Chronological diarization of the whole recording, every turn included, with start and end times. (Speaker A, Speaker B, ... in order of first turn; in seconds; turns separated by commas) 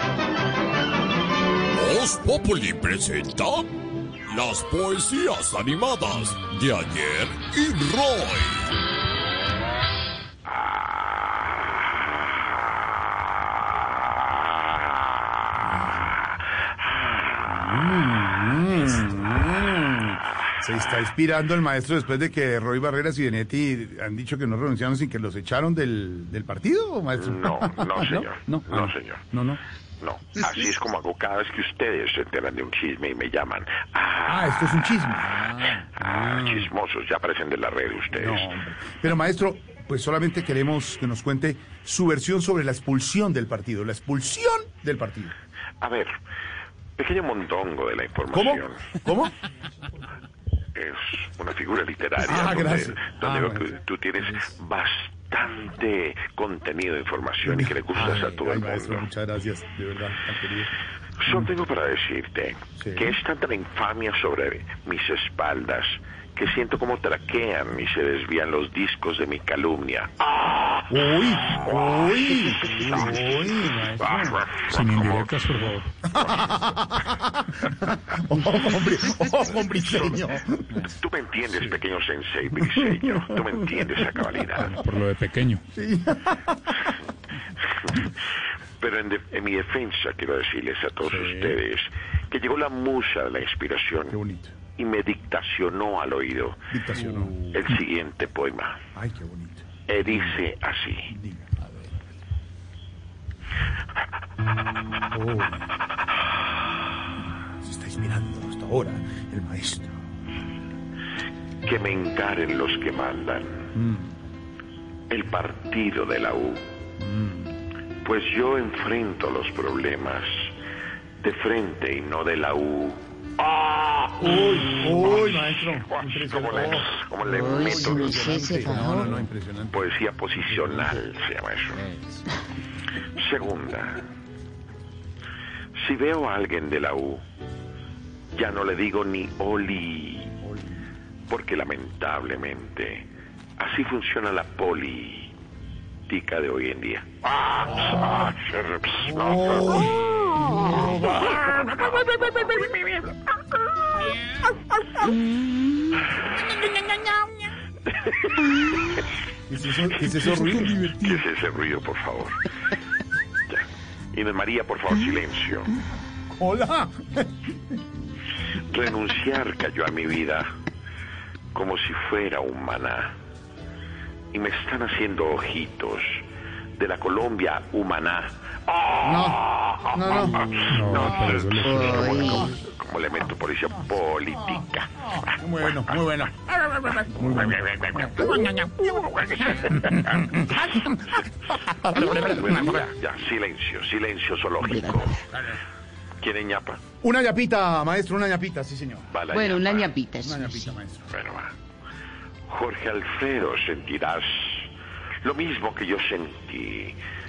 Speaker A: 1.7-3.8, Speaker A: 4.3-8.7, Speaker B: 17.5-29.6, Speaker C: 27.2-29.2, Speaker C: 30.0-38.5, Speaker B: 34.3-36.7, Speaker B: 38.1-45.3, Speaker C: 45.8-46.1, Speaker C: 47.0-48.9, Speaker B: 48.3-49.3, Speaker C: 50.8-59.1, Speaker B: 52.2-53.8, Speaker B: 57.4-60.7, Speaker C: 61.2-70.9, Speaker B: 62.8-63.1, Speaker B: 70.9-74.4, Speaker C: 71.6-73.3, Speaker C: 74.0-75.4, Speaker D: 74.7-75.9, Speaker B: 76.1-80.9, Speaker C: 76.1-76.6, Speaker C: 79.7-80.2, Speaker C: 80.8-84.7, Speaker D: 84.6-85.6, Speaker B: 85.8-86.8, Speaker C: 88.8-94.2, Speaker B: 91.0-91.6, Speaker B: 94.1-94.5, Speaker C: 94.8-98.8, Speaker B: 96.7-97.7, Speaker B: 99.0-100.4, Speaker C: 99.9-101.1, Speaker B: 101.1-101.7, Speaker B: 105.1-105.6, Speaker B: 107.5-109.9, Speaker C: 111.7-113.7, Speaker B: 113.8-114.1, Speaker C: 115.1-116.7, Speaker B: 117.0-117.5, Speaker C: 118.0-120.5, Speaker C: 121.2-128.5, Speaker B: 124.2-129.8, Speaker E: 127.3-129.2, Speaker C: 129.7-131.8, Speaker B: 130.4-130.9, Speaker C: 133.1-134.1, Speaker C: 135.8-137.2, Speaker C: 138.3-140.4, Speaker B: 140.4-140.7, Speaker C: 141.3-143.1, Speaker C: 143.6-145.3, Speaker C: 146.1-152.7, Speaker B: 149.0-151.4, Speaker E: 155.0-156.1, Speaker D: 156.7-157.1, Speaker B: 159.5-161.1, Speaker D: 160.7-161.1, Speaker C: 160.9-162.5, Speaker C: 163.5-165.7, Speaker B: 166.3-167.3, Speaker C: 168.7-170.5, Speaker C: 171.5-173.2, Speaker C: 174.3-176.2, Speaker C: 176.8-186.0, Speaker B: 179.0-181.4, Speaker D: 180.7-182.4, Speaker E: 181.6-182.5, Speaker B: 184.5-188.5, Speaker C: 186.6-190.7, Speaker B: 190.1-190.9, Speaker B: 191.6-192.6, Speaker E: 191.9-192.8, Speaker C: 192.1-195.2, Speaker E: 194.6-195.2, Speaker C: 196.2-196.8, Speaker B: 197.0-199.1, Speaker C: 199.1-199.9, Speaker E: 199.3-200.7, Speaker B: 200.2-201.1, Speaker C: 201.1-201.5, Speaker C: 202.5-204.7, Speaker C: 205.2-207.0